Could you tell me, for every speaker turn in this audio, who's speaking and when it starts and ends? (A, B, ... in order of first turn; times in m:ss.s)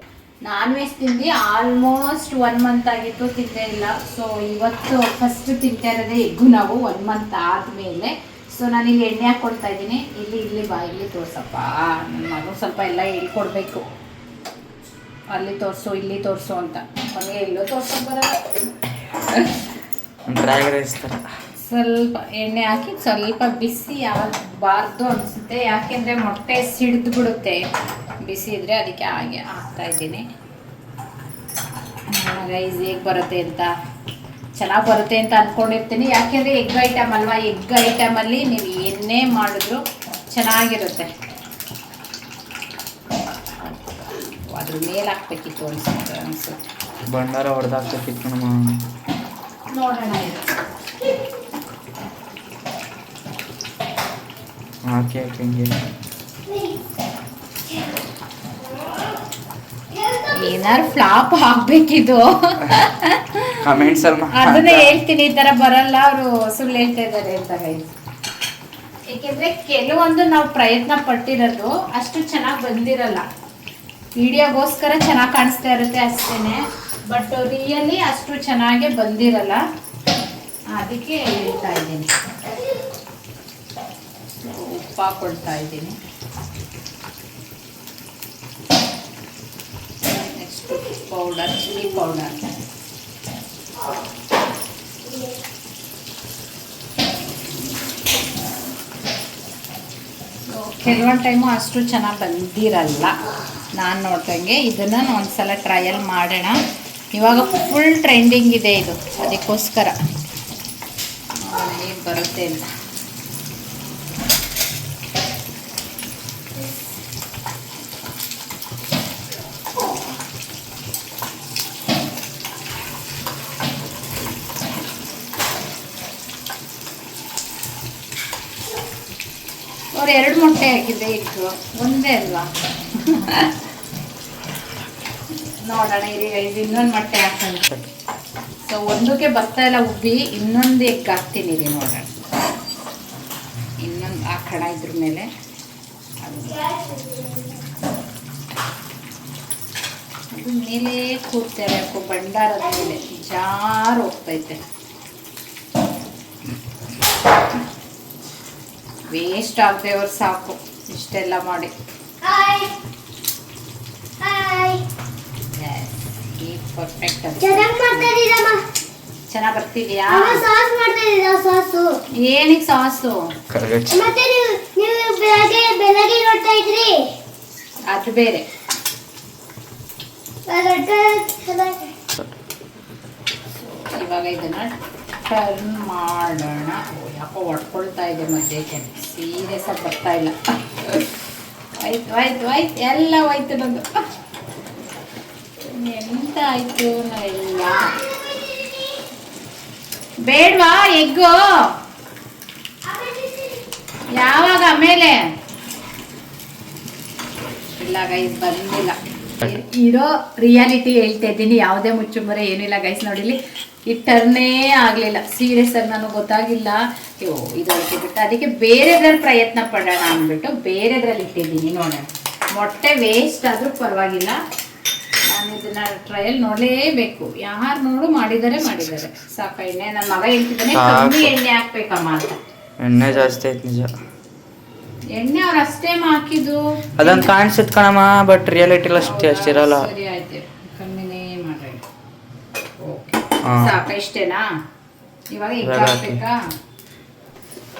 0:00.4-0:13.8 A
0:15.3-0:18.4 A
0:20.3-0:21.2 B
0:21.6-0:27.6 A
0:28.2-0:30.2 A
0:32.1-0:33.7 A
0:34.6-0:41.1 A
0:43.6-0:46.6 A
0:47.1-0:48.7 B
0:49.7-0:50.5 A
0:54.8-0:55.8 B
0:56.5-0:56.8 C
0:59.9-1:00.8 C
1:00.3-1:07.9 A
1:03.6-1:05.0 B
1:09.1-1:13.2 A
1:14.2-1:19.6 A
1:20.7-1:22.1 A
1:24.4-1:26.0 A
1:30.0-1:32.4 A
1:40.5-1:43.1 A
1:43.8-1:46.6 A
1:47.1-1:50.0 A
1:51.4-1:52.7 A
2:09.9-2:13.5 A
2:15.6-2:17.7 A
2:18.6-2:22.1 A
2:23.8-2:25.3 A
2:26.2-2:26.7 A
2:26.6-2:27.4 C
2:30.3-2:34.6 A
2:39.1-2:41.7 A
2:42.2-2:42.7 C
2:44.2-2:44.8 C
2:45.5-2:48.1 A
2:47.4-2:48.6 C
2:49.3-2:50.4 A
2:50.1-2:52.0 C
2:52.2-2:53.3 A
2:53.5-2:54.0 B
2:53.9-2:57.1 C
2:57.9-2:58.5 A
3:00.5-3:01.8 C
3:03.6-3:04.7 A
3:05.2-3:11.1 A
3:11.8-3:13.9 A
3:15.7-3:17.9 A
3:20.2-3:21.4 A
3:22.8-3:23.6 C
3:24.2-3:25.2 A
3:27.8-3:44.4 A
3:45.3-3:52.4 A
3:50.7-3:51.4 B
3:52.8-3:53.9 B
3:55.1-3:57.3 A
3:57.0-3:59.9 B
3:59.0-4:01.8 A
4:02.8-4:04.4 A
4:03.4-4:03.7 B
4:05.3-4:06.4 A
4:05.6-4:06.2 B